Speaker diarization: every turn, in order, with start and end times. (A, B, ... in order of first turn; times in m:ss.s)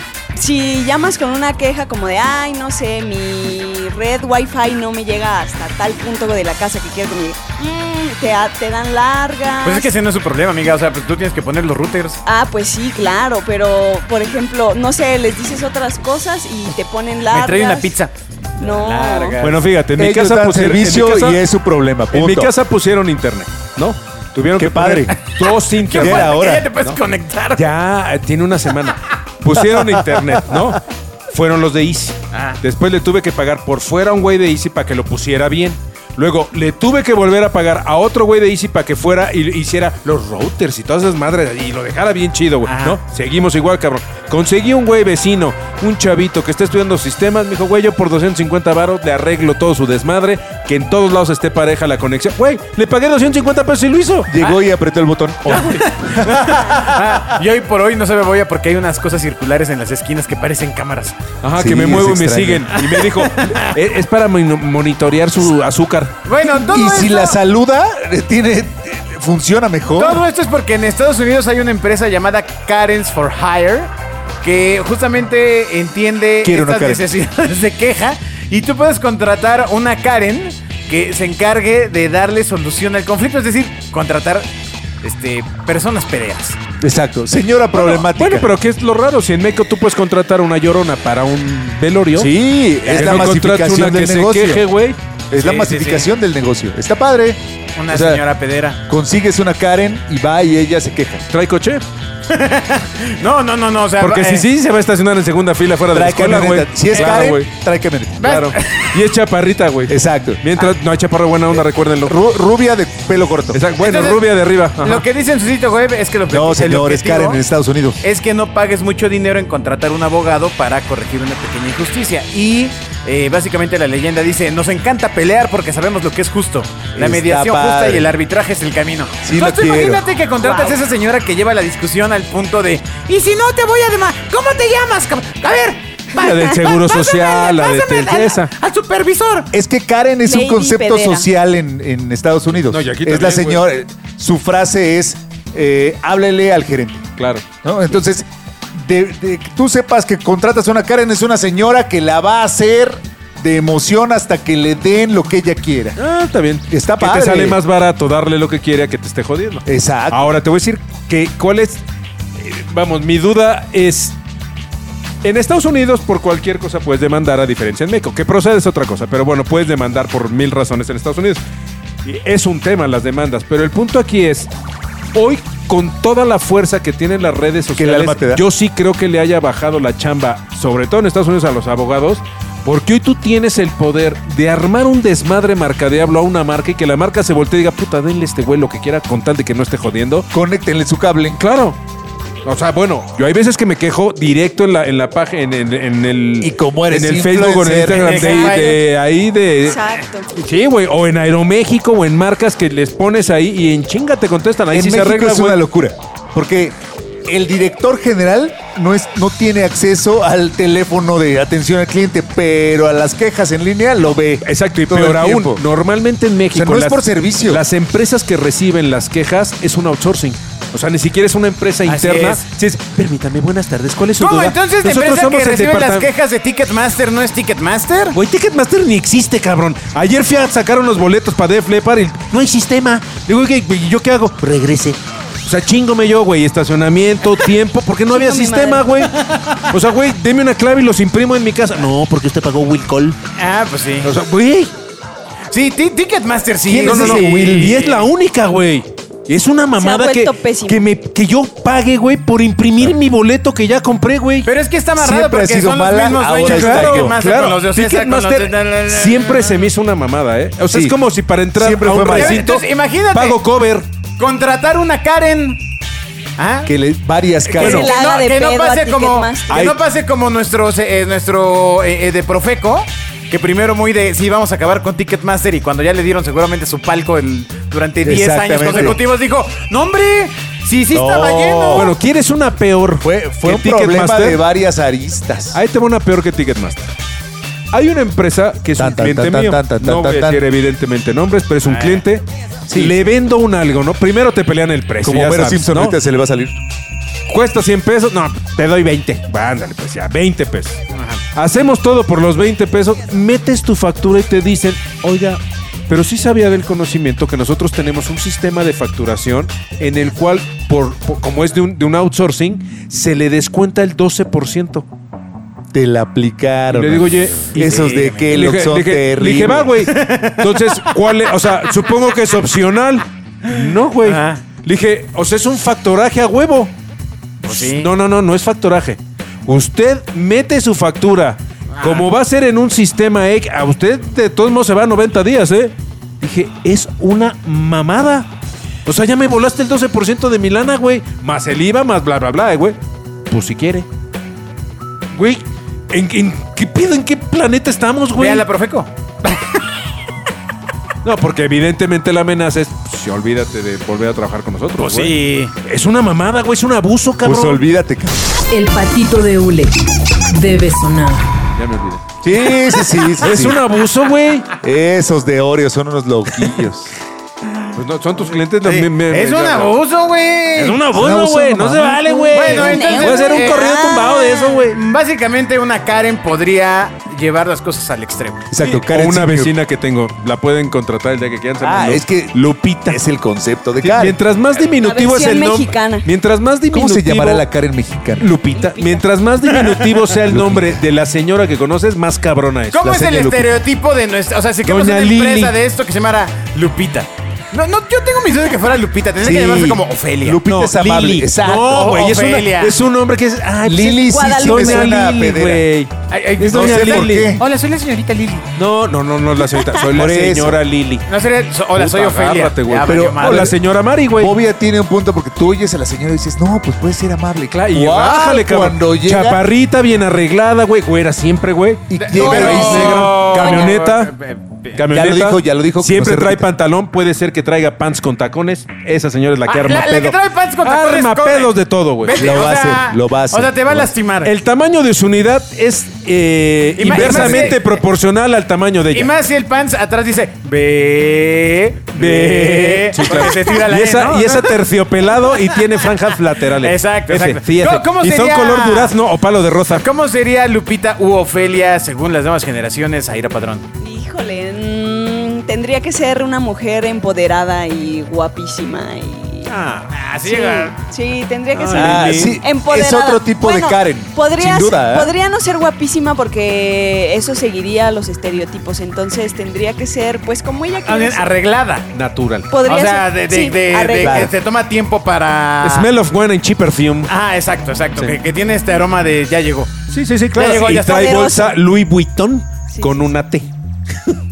0:00.3-0:09.9 A
0:09.6-0:12.2 B
0:12.2-0:17.9 A
0:17.3-0:19.7 B
0:18.6-0:19.4 A
0:19.4-0:21.4 C
0:20.0-0:22.5 D
0:22.1-0:27.0 C
0:24.6-0:25.2 D
0:25.4-0:27.6 B
0:25.9-0:26.7 D
0:27.5-0:54.4 C
0:32.3-0:32.6 B
0:42.6-0:43.0 B
0:54.3-0:56.7 D
0:55.5-0:55.8 C
0:55.8-1:01.2 B
1:01.4-1:06.2 C
1:01.6-1:02.7 D
1:02.9-1:03.7 B
1:06.3-1:07.4 B
1:06.4-1:10.2 D
1:10.0-1:24.5 B
1:16.4-1:17.0 D
1:25.0-1:26.6 B
1:26.8-1:28.5 D
1:27.7-1:32.3 C
1:32.2-1:34.6 D
1:32.9-1:35.0 C
1:35.3-1:37.4 D
1:35.3-1:36.1 B
1:37.8-1:38.8 B
1:37.9-1:38.2 D
1:38.9-1:41.2 D
1:41.3-1:41.8 C
1:42.3-1:44.5 B
1:44.0-1:47.5 C
1:45.9-1:48.4 D
1:48.2-1:52.2 C
1:48.2-1:48.9 B
1:49.9-1:50.4 D
1:52.1-1:53.6 D
1:53.5-1:55.0 C
1:53.8-1:54.2 B
1:54.8-1:57.4 B
1:56.3-1:58.0 D
1:58.0-2:19.5 B
2:07.0-2:08.1 D
2:09.2-2:10.0 D
2:10.4-2:10.8 A
2:16.2-2:18.5 C
2:19.5-2:27.1 D
2:20.2-2:21.3 A
2:22.7-2:23.6 C
2:27.2-2:27.5 C
2:27.6-2:36.0 D
2:36.0-2:41.8 C
2:36.7-2:37.6 D
2:39.6-2:40.3 D
2:42.4-2:44.2 C
2:45.2-2:51.4 C
2:52.0-2:54.5 C
2:55.1-3:10.3 C
2:57.8-2:58.4 D
3:10.3-3:11.4 D
3:11.3-3:11.8 C
3:12.4-3:19.8 C
3:16.4-3:18.7 D
3:17.9-3:18.8 B
3:19.6-3:20.3 A
3:20.3-3:25.6 C
3:24.7-3:35.6 D
3:34.4-3:46.1 C
3:36.5-3:37.6 D
3:41.8-3:42.4 B
3:44.2-3:48.2 B
3:48.1-4:03.2 C
3:58.1-3:58.9 A
4:03.4-4:04.1 B
4:04.0-4:04.7 C
4:05.5-4:08.1 B
4:06.6-4:07.8 D
4:06.8-4:14.5 C
4:09.8-4:10.8 A
4:14.4-4:19.6 B
4:15.0-4:17.2 D
4:16.3-4:23.9 C
4:20.7-4:21.0 D
4:21.6-4:22.5 D
4:22.0-4:23.4 B
4:24.2-4:25.6 B
4:26.4-4:26.7 B
4:26.6-4:27.9 D
4:27.4-4:41.9 B
4:27.6-4:27.9 C
4:27.6-4:29.7 A
4:29.5-4:29.8 C
4:38.0-4:39.0 D
4:40.9-4:41.9 D
4:41.7-4:44.4 C
4:43.0-4:45.6 D
4:45.5-4:46.9 C
4:47.7-4:56.0 C
4:48.8-4:50.4 D
4:51.6-4:52.0 B
4:52.7-4:53.0 D
4:55.0-4:56.6 D
4:57.3-5:00.8 C
5:00.9-5:01.2 B
5:01.4-5:14.8 C
5:15.7-5:19.9 D
5:16.7-5:26.7 C
5:17.6-5:18.3 B
5:19.9-5:20.9 B
5:23.5-5:24.4 B
5:27.4-5:27.9 B
5:27.4-5:38.3 C
5:31.8-5:32.1 B
5:38.9-5:42.8 C
5:43.3-5:43.9 C
5:45.1-5:48.5 C
5:48.2-5:49.4 B
5:51.0-5:57.6 C
5:54.8-5:55.5 B
5:57.2-5:58.3 D
5:58.5-6:01.3 E
6:01.6-6:02.1 C
6:02.2-6:03.6 D
6:03.1-6:04.5 C
6:04.6-6:06.9 D
6:07.7-6:09.8 C
6:08.6-6:10.8 B
6:10.6-6:14.8 C
6:10.9-6:12.5 D
6:12.3-6:13.6 B
6:12.4-6:14.7 A
6:14.7-6:18.5 B
6:18.5-6:19.5 D
6:18.6-6:23.0 C
6:21.6-6:24.2 D
6:23.8-6:27.4 C
6:24.6-6:26.1 A
6:26.7-6:28.3 D
6:28.2-6:32.8 C
6:28.5-6:29.0 A
6:29.5-6:30.0 B
6:30.3-6:30.8 D
6:32.7-6:40.4 B
6:32.8-6:33.5 D
6:34.6-6:35.6 C
6:39.2-6:41.9 D
6:40.5-6:47.3 C
6:41.5-6:42.8 B
6:43.6-6:45.6 D
6:44.1-6:45.0 A
6:46.1-6:48.5 B
6:46.4-6:47.4 D
6:48.6-6:51.1 C
6:49.6-6:49.8 A
6:49.9-6:50.6 D
6:51.1-6:53.5 B
6:51.7-6:54.3 C
6:52.8-6:53.6 D
6:54.2-6:59.4 D
6:57.5-7:04.1 C
7:01.9-7:03.3 D
7:02.0-7:04.8 B
7:04.7-7:12.3 C
7:04.9-7:06.5 D
7:09.5-7:14.3 B
7:12.1-7:13.9 D
7:14.2-7:19.1 C
7:16.8-7:17.8 B
7:16.9-7:17.6 D
7:18.9-7:24.6 B
7:22.0-7:29.9 C
7:25.3-7:25.6 B
7:26.6-7:29.0 B
7:29.7-7:33.7 B
7:33.8-7:39.5 A
7:39.5-7:40.8 B
7:40.2-7:51.3 A
7:41.5-7:42.4 C
7:41.7-7:45.1 D
7:50.9-7:51.9 B
7:51.9-7:52.5 C
7:52.5-7:54.3 A
7:52.6-7:55.9 B
7:54.0-7:54.3 D
7:55.6-7:57.1 C
7:57.1-7:59.8 B
7:59.9-8:04.2 C
8:00.3-8:01.3 B
8:00.6-8:01.6 A
8:02.7-8:03.0 A